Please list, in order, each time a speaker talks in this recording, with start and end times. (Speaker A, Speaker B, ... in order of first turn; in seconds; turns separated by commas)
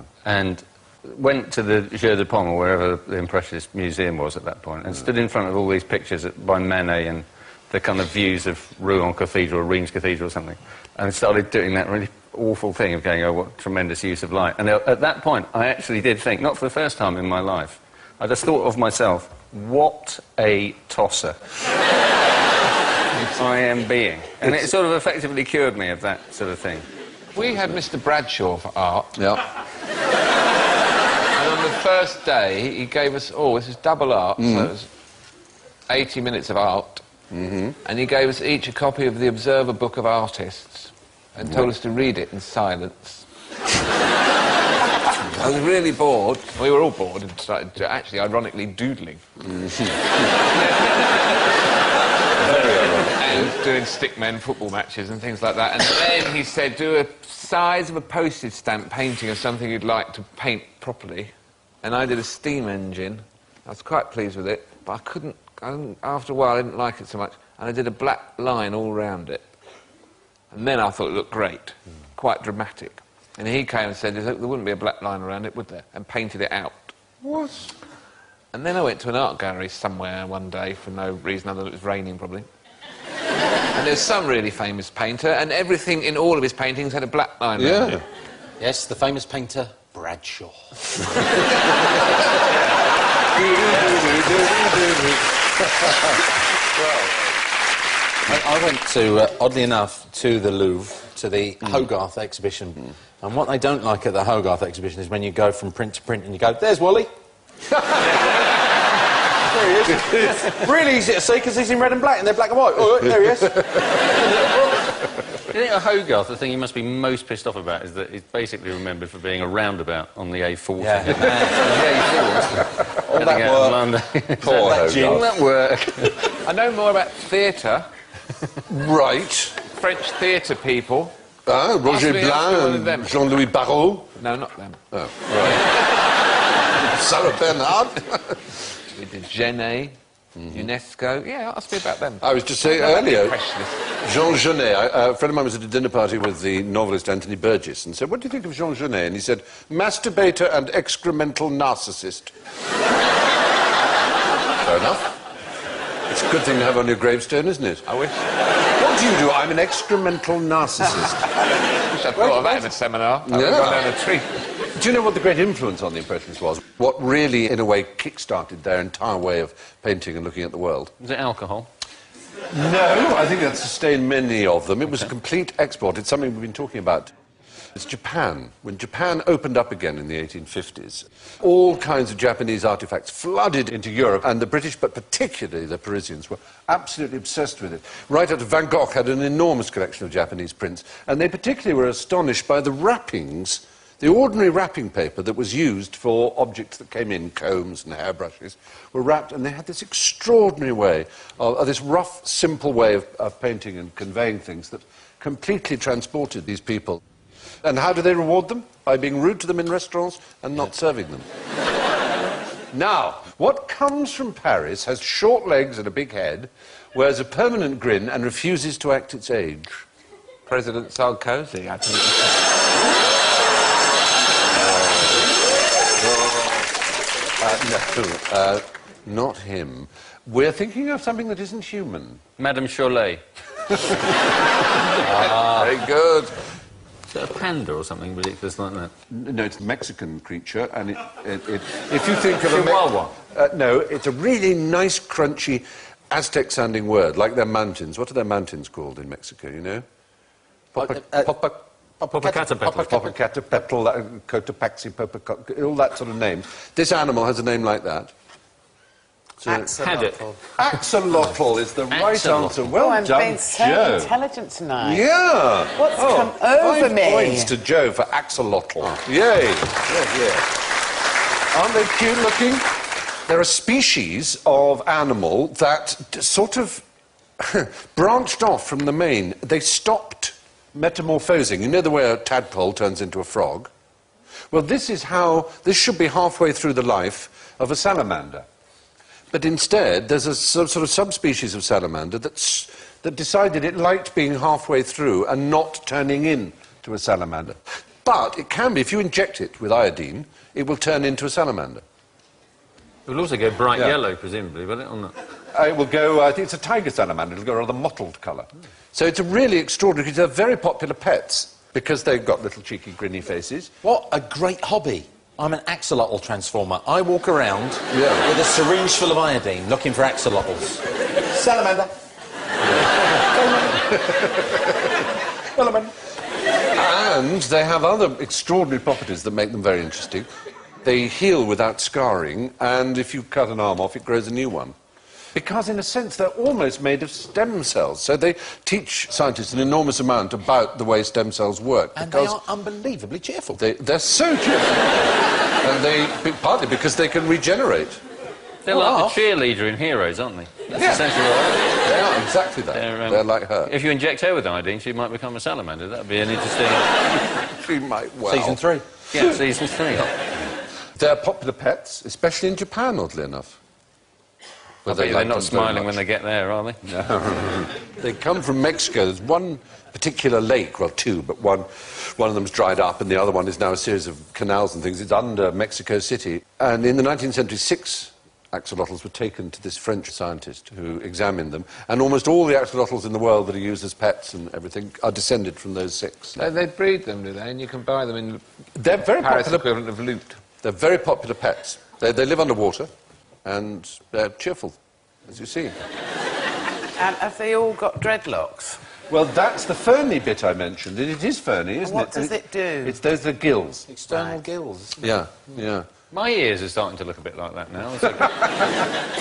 Speaker A: 0.2-21.4, Speaker A: 23.2-26.9, Speaker B: 24.4-24.7, Speaker C: 27.4-29.1, Speaker B: 29.1-29.4, Speaker C: 31.4-34.9, Speaker B: 34.4-34.7, Speaker C: 35.9-37.0, Speaker B: 37.3-37.8, Speaker C: 37.9-43.3, Speaker B: 45.2-46.5, Speaker C: 46.4-49.2, Speaker B: 49.4-50.3, Speaker C: 50.5-51.6, Speaker B: 52.4-53.5, Speaker C: 52.4-61.3, Speaker C: 61.8-69.5, Speaker C: 70.5-76.9, Speaker B: 77.2-77.7, Speaker C: 78.5-82.5, Speaker C: 83.8-88.0, Speaker B: 87.6-88.0, Speaker D: 88.6-91.4, Speaker B: 93.3-96.3, Speaker D: 98.3-107.1, Speaker B: 107.8-108.2, Speaker D: 107.9-108.6, Speaker D: 109.4-114.6, Speaker B: 113.2-113.8, Speaker A: 115.5-126.2, Speaker D: 120.8-123.9, Speaker B: 123.2-123.8, Speaker B: 124.4-125.4, Speaker D: 124.5-125.3, Speaker C: 126.4-127.9, Speaker B: 128.7-129.6, Speaker C: 129.7-131.1, Speaker B: 131.5-134.2, Speaker C: 131.9-133.2, Speaker C: 134.2-134.8, Speaker B: 134.9-135.8, Speaker B: 136.7-138.4, Speaker C: 138.9-140.0, Speaker C: 140.5-143.8, Speaker B: 142.2-143.4, Speaker B: 144.0-152.3, Speaker B: 154.6-155.2, Speaker B: 156.1-157.9, Speaker C: 157.9-158.2, Speaker B: 158.8-161.3, Speaker C: 161.9-164.3, Speaker B: 163.2-163.9, Speaker B: 164.8-170.9, Speaker A: 171.0-171.7, Speaker B: 172.5-177.1, Speaker B: 177.7-207.0, Speaker B: 207.6-211.3, Speaker B: 212.7-219.8, Speaker C: 220.5-222.4, Speaker B: 224.5-225.4, Speaker B: 226.0-226.7, Speaker B: 227.4-232.2, Speaker A: 232.4-233.2, Speaker B: 233.7-234.3, Speaker B: 234.9-236.3, Speaker D: 235.0-235.7, Speaker A: 237.1-238.9, Speaker B: 239.1-249.8, Speaker A: 242.5-243.1, Speaker B: 250.7-251.6, Speaker D: 250.8-251.4, Speaker D: 252.0-253.0, Speaker A: 252.1-253.1, Speaker B: 252.8-258.1, Speaker E: 259.4-260.4, Speaker B: 259.4-259.7, Speaker A: 259.8-260.2, Speaker B: 260.6-264.1, Speaker A: 261.9-262.7, Speaker E: 262.8-265.1, Speaker B: 264.8-270.5, Speaker E: 265.8-267.5, Speaker B: 271.5-272.7, Speaker B: 273.3-276.8, Speaker B: 277.4-283.7, Speaker B: 284.5-288.5, Speaker B: 289.3-301.8, Speaker A: 303.1-305.1, Speaker B: 303.7-304.0, Speaker B: 305.5-313.7, Speaker D: 313.8-321.9, Speaker B: 317.9-318.3, Speaker D: 323.1-324.0, Speaker B: 323.8-324.7, Speaker D: 325.6-325.9, Speaker B: 326.7-330.3, Speaker B: 330.8-334.8, Speaker B: 335.3-342.4, Speaker D: 342.0-343.6, Speaker B: 343.6-348.0, Speaker A: 348.6-351.8, Speaker D: 348.7-349.2, Speaker B: 350.8-351.1, Speaker B: 351.8-353.7, Speaker A: 352.7-357.0, Speaker B: 357.3-358.6, Speaker D: 358.3-358.9, Speaker A: 359.1-360.1, Speaker B: 361.0-363.6, Speaker A: 364.9-366.8, Speaker B: 364.9-366.0, Speaker B: 366.9-386.5, Speaker C: 386.4-388.4, Speaker B: 388.8-389.7, Speaker C: 389.1-390.4, Speaker B: 390.6-392.9, Speaker B: 393.4-395.8, Speaker E: 397.0-398.8, Speaker B: 399.1-403.9, Speaker E: 401.8-403.0, Speaker D: 403.9-405.2, Speaker E: 404.1-404.4, Speaker B: 405.0-405.9, Speaker A: 406.1-408.7